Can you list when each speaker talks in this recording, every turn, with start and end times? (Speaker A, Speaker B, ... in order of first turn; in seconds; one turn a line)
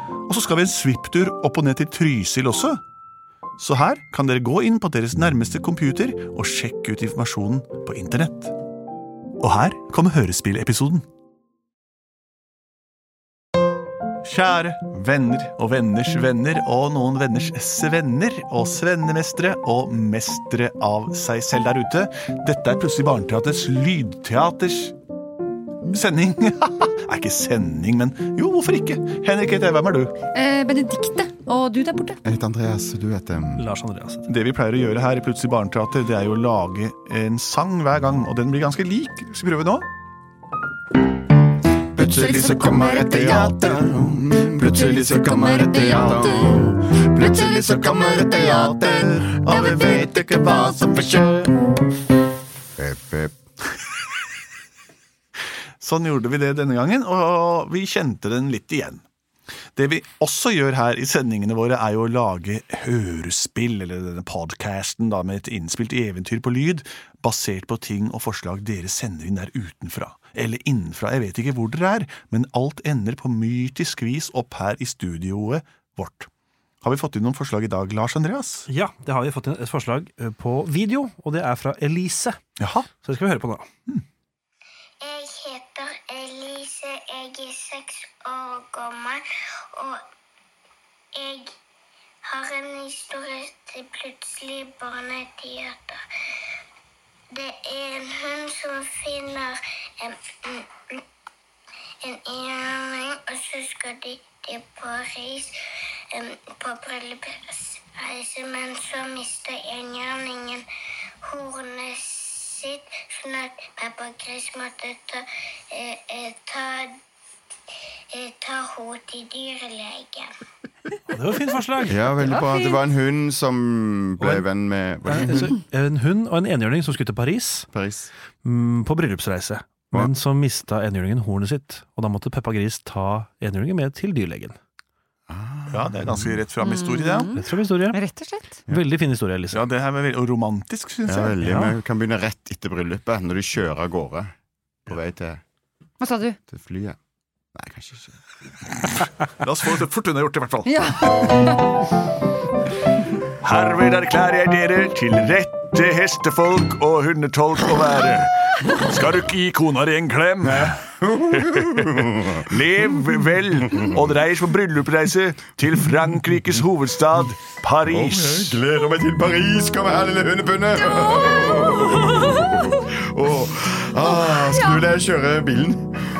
Speaker A: 0.3-2.8
Speaker A: 3.6-8.5
Speaker A: 9.4-11.0
Speaker A: 14.2-24.9
Speaker A: 25.8-30.1
Speaker B: 30.3-32.2
Speaker C: 32.2-33.6
Speaker D: 33.6-34.3
Speaker A: 34.3-39.8
Speaker C: 42.0-50.9
Speaker B: 42.0-43.6
Speaker A: 44.6-45.4
Speaker B: 44.9-46.6
Speaker B: 47.3-48.3
Speaker A: 48.4-51.5
Speaker B: 49.5-50.7
Speaker C: 52.8-53.4
Speaker A: 55.8-59.0
Speaker A: 59.7-76.3
Speaker A: 76.8-78.7
Speaker D: 78.7-82.4
Speaker A: 82.6-82.9
Speaker D: 82.9-83.7
Speaker E: 85.0-90.0
Speaker E: 91.1-91.5
Speaker E: 92.2-96.0
Speaker E: 97.3-101.0
Speaker E: 102.0-105.5
Speaker E: 106.1-110.7
Speaker E: 111.2-116.9
Speaker E: 118.1-120.3
Speaker D: 121.1-122.4
Speaker C: 121.9-125.5
Speaker D: 125.0-127.7
Speaker C: 127.7-128.1
Speaker D: 128.4-134.6
Speaker C: 135.3-136.3
Speaker A: 135.7-137.3
Speaker B: 136.6-138.6
Speaker D: 137.3-138.0
Speaker D: 138.7-139.6
Speaker A: 139.5-141.3
Speaker C: 141.1-144.3
Speaker D: 141.4-141.7
Speaker C: 144.8-145.4
Speaker B: 146.0-146.4
Speaker C: 146.5-147.0
Speaker C: 147.5-148.2
Speaker A: 149.3-150.9
Speaker B: 150.6-151.6
Speaker A: 153.4-168.6
Speaker C: 160.4-162.5
Speaker C: 167.9-175.9
Speaker B: 170.8-172.7
Speaker B: 174.1-174.8